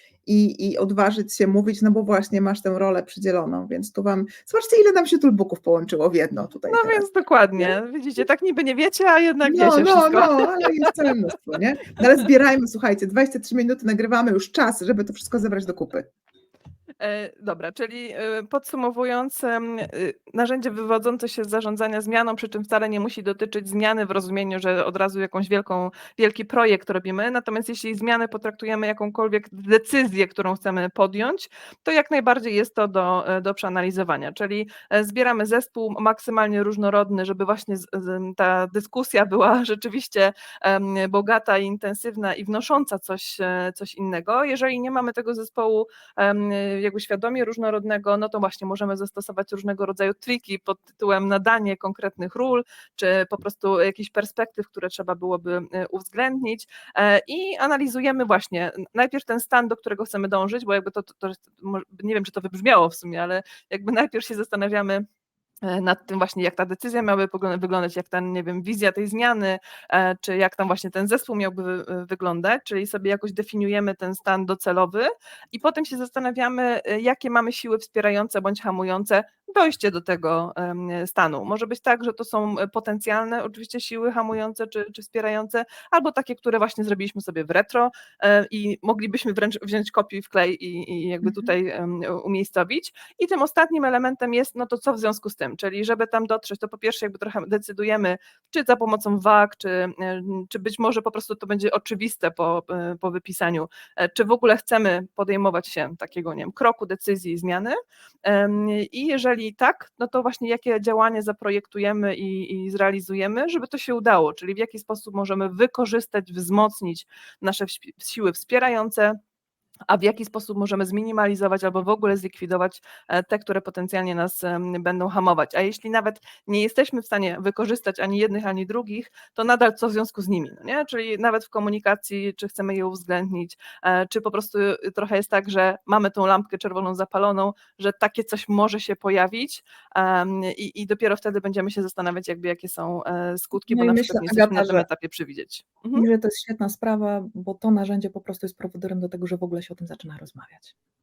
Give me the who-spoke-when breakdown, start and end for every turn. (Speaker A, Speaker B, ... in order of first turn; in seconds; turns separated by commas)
Speaker A: 0.3-7.1, Speaker B: 6.7-10.8, Speaker A: 9.4-16.1, Speaker B: 17.0-65.0, Speaker B: 65.6-119.2, Speaker A: 91.2-91.5, Speaker B: 119.9-146.1, Speaker C: 143.7-144.9, Speaker C: 145.9-150.7